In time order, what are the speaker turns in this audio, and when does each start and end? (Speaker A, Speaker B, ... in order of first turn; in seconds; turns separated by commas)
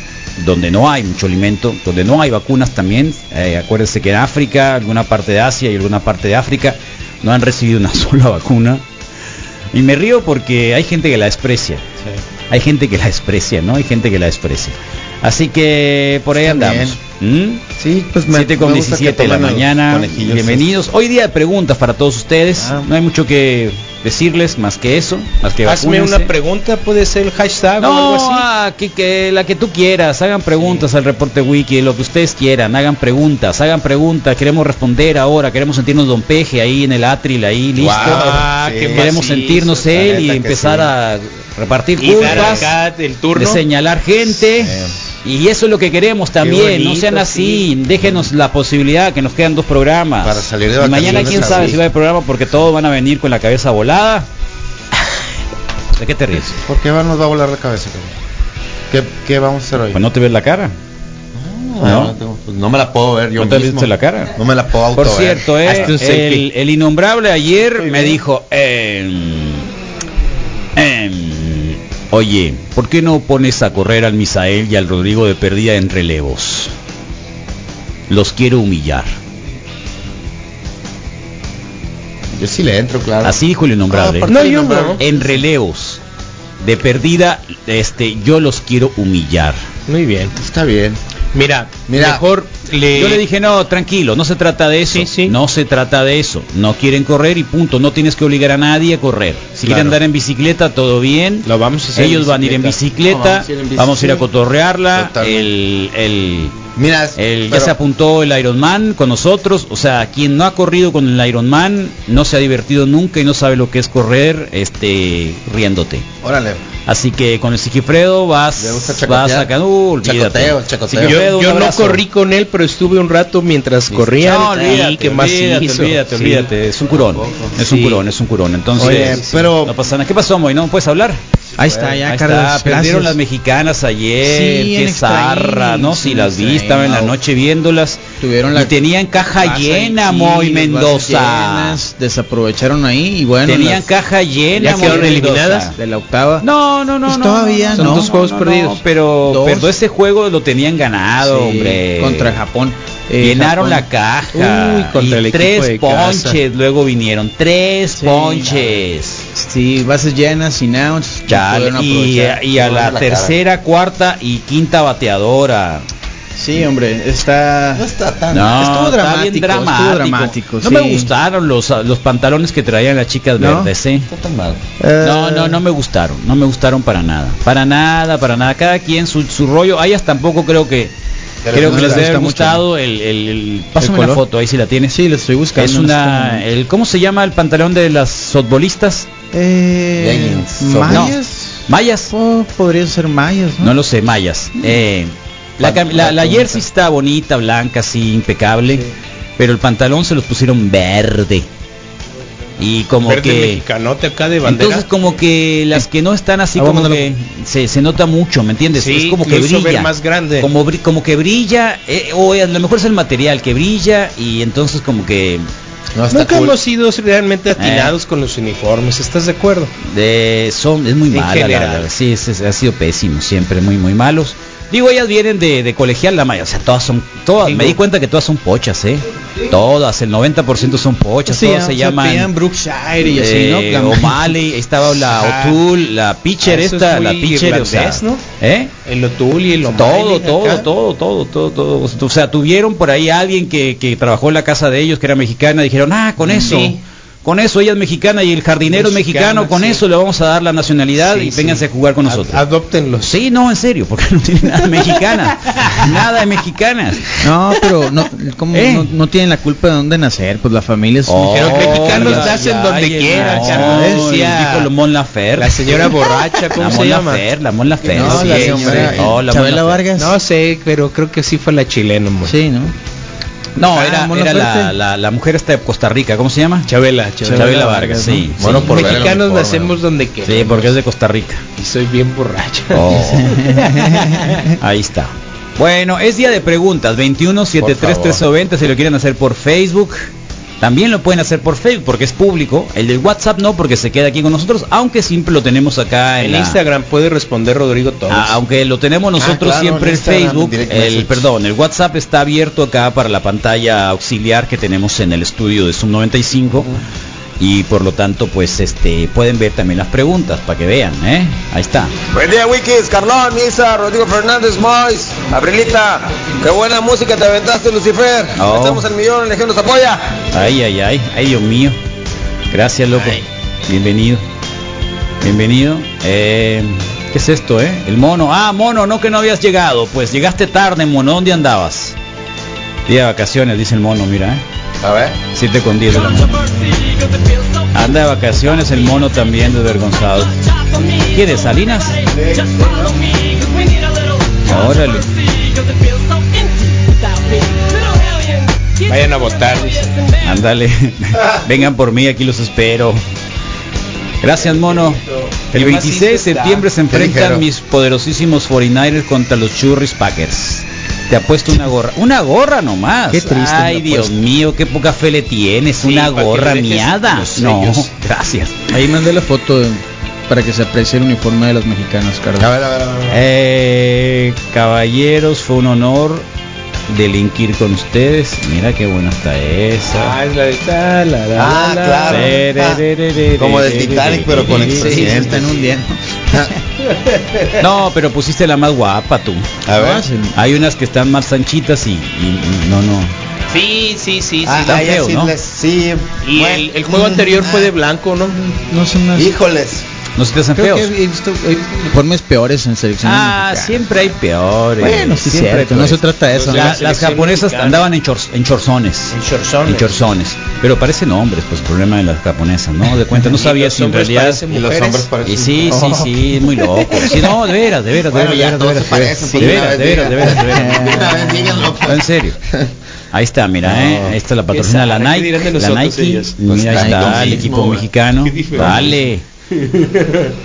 Speaker A: 0.4-8.8, Speaker A: 9.7-11.8, Speaker A: 12.5-17.6, Speaker B: 16.4-17.0, Speaker B: 17.8-20.7, Speaker A: 18.3-26.3, Speaker B: 22.6-22.9, Speaker C: 25.6-28.4, Speaker A: 27.8-42.7, Speaker C: 30.6-30.8, Speaker B: 37.8-39.1, Speaker C: 37.9-39.7, Speaker B: 39.7-40.9, Speaker C: 42.0-43.6, Speaker B: 42.2-42.7, Speaker A: 43.3-54.3, Speaker B: 44.4-44.9, Speaker C: 46.4-47.6, Speaker B: 50.2-51.8, Speaker C: 51.0-51.8, Speaker A: 56.0-56.6, Speaker B: 56.6-58.1, Speaker B: 58.9-60.0, Speaker A: 59.9-60.7, Speaker B: 61.3-65.9, Speaker A: 61.8-62.1, Speaker A: 63.4-64.3, Speaker A: 64.9-69.7, Speaker C: 65.7-66.4, Speaker A: 70.7-76.7, Speaker A: 78.1-79.1, Speaker B: 82.3-85.3, Speaker A: 83.2-84.4, Speaker C: 84.3-85.0, Speaker A: 85.0-86.0, Speaker A: 86.6-89.6, Speaker C: 89.9-90.3, Speaker B: 90.3-91.0, Speaker C: 91.3-93.2, Speaker B: 91.9-92.2, Speaker A: 92.9-106.5, Speaker C: 94.9-95.3, Speaker B: 99.6-100.0, Speaker C: 101.4-103.8, Speaker B: 104.9-105.5, Speaker B: 106.8-107.7, Speaker A: 107.2-116.1, Speaker B: 116.2-116.6, Speaker A: 116.8-122.0, Speaker B: 118.6-119.5, Speaker B: 120.0-121.2, Speaker C: 121.0-126.5, Speaker B: 123.9-124.4, Speaker A: 124.2-131.2, Speaker B: 127.2-127.5, Speaker C: 127.6-128.0, Speaker B: 128.8-129.8, Speaker C: 128.8-129.4, Speaker B: 131.6-132.0, Speaker D: 131.6-133.2, Speaker A: 132.0-138.0, Speaker D: 134.2-137.2, Speaker D: 138.2-138.8, Speaker A: 138.5-141.8, Speaker D: 139.3-143.9, Speaker A: 143.4-145.7, Speaker C: 144.6-145.7, Speaker D: 144.6-146.4, Speaker A: 146.4-152.4, Speaker D: 147.1-148.1, Speaker C: 147.7-148.8, Speaker D: 149.2-149.7, Speaker D: 151.2-153.8, Speaker A: 153.2-159.2, Speaker C: 154.3-156.4, Speaker D: 157.9-158.6, Speaker D: 159.3-162.4, Speaker A: 161.3-165.8, Speaker B: 162.5-163.4, Speaker D: 166.4-167.8, Speaker B: 167.7-168.5, Speaker A: 168.3-174.1, Speaker D: 168.6-171.1, Speaker D: 173.4-173.7, Speaker B: 174.1-174.6, Speaker D: 174.8-175.6, Speaker A: 175.0-180.9, Speaker B: 181.4-182.1, Speaker A: 181.5-184.9, Speaker D: 181.5-182.6, Speaker D: 183.8-184.2, Speaker D: 184.9-186.4, Speaker A: 185.6-189.1, Speaker D: 189.3-193.7, Speaker B: 190.0-191.2, Speaker A: 190.9-191.2, Speaker A: 191.7-192.1, Speaker A: 193.6-198.8, Speaker B: 195.6-196.6, Speaker A: 199.4-201.5, Speaker A: 202.6-203.6, Speaker C: 203.0-204.9, Speaker A: 204.4-215.4, Speaker D: 206.6-207.1, Speaker C: 208.8-210.5, Speaker B: 215.9-216.6, Speaker C: 216.1-219.7, Speaker A: 217.6-217.9, Speaker A: 219.8-232.3, Speaker C: 221.1-221.9, Speaker C: 227.4-227.8, Speaker D: 231.3-234.2, Speaker A: 233.1-238.7, Speaker C: 235.0-235.6, Speaker C: 236.4-238.2, Speaker C: 238.8-240.7, Speaker A: 239.7-252.4, Speaker C: 246.2-246.8, Speaker C: 248.7-249.8, Speaker C: 251.0-253.1, Speaker A: 253.0-257.2, Speaker D: 257.2-262.3, Speaker A: 258.5-258.9, Speaker A: 261.1-269.8, Speaker C: 261.3-264.7, Speaker D: 263.3-264.1, Speaker C: 265.4-267.2, Speaker B: 267.9-269.2, Speaker D: 267.9-270.1, Speaker C: 269.9-272.4, Speaker D: 272.2-272.7, Speaker A: 273.6-276.7, Speaker D: 273.7-274.7, Speaker C: 276.7-277.8, Speaker D: 277.2-278.3, Speaker A: 277.3-279.2, Speaker B: 278.4-279.8, Speaker C: 278.5-280.7, Speaker A: 280.2-281.4, Speaker C: 281.6-284.3, Speaker A: 282.7-283.6, Speaker D: 283.2-284.5, Speaker A: 284.6-290.1, Speaker B: 287.6-288.2, Speaker A: 290.6-296.6, Speaker C: 296.2-298.4, Speaker A: 298.1-306.7, Speaker B: 299.2-301.3, Speaker A: 307.4-311.9, Speaker E: 312.1-320.1, Speaker A: 318.3-318.9, Speaker A: 320.3-321.8, Speaker A: 322.5-324.2, Speaker A: 325.2-331.9, Speaker A: 332.9-334.4, Speaker B: 334.8-335.2, Speaker A: 335.3-336.6, Speaker A: 337.7-342.1, Speaker B: 342.1-342.8, Speaker A: 344.4-345.5, Speaker C: 348.8-350.1, Speaker A: 350.2-353.0, Speaker A: 354.2-355.0, Speaker A: 355.5-368.6, Speaker C: 355.5-356.7, Speaker B: 356.9-357.4, Speaker D: 363.1-364.1, Speaker C: 365.8-367.9, Speaker D: 368.7-372.5, Speaker B: 372.4-373.2, Speaker A: 373.1-376.2, Speaker A: 376.9-380.2, Speaker C: 379.9-382.4, Speaker B: 381.3-382.8, Speaker A: 382.1-385.0, Speaker B: 383.3-385.6, Speaker D: 384.4-386.0, Speaker C: 384.8-385.7, Speaker C: 386.9-387.6, Speaker A: 387.6-389.6, Speaker B: 389.6-390.0, Speaker D: 389.7-390.4, Speaker A: 390.3-393.1, Speaker C: 393.5-394.9, Speaker B: 394.4-397.7, Speaker A: 394.6-395.3, Speaker C: 396.2-398.4, Speaker D: 398.4-399.3, Speaker B: 399.1-399.8, Speaker A: 400.2-400.9, Speaker D: 400.6-403.9, Speaker A: 403.0-414.4, Speaker D: 404.8-406.8, Speaker C: 406.3-407.9, Speaker C: 409.1-410.0, Speaker C: 413.2-415.1, Speaker B: 414.5-415.9, Speaker A: 415.2-421.2, Speaker D: 415.7-417.1, Speaker B: 418.0-422.7, Speaker D: 420.3-421.7, Speaker A: 421.8-422.4, Speaker A: 423.1-429.2, Speaker B: 423.6-424.1, Speaker C: 424.5-426.3, Speaker B: 426.4-427.9, Speaker D: 426.7-427.4, Speaker C: 428.2-429.0, Speaker B: 428.5-428.9, Speaker C: 429.5-430.3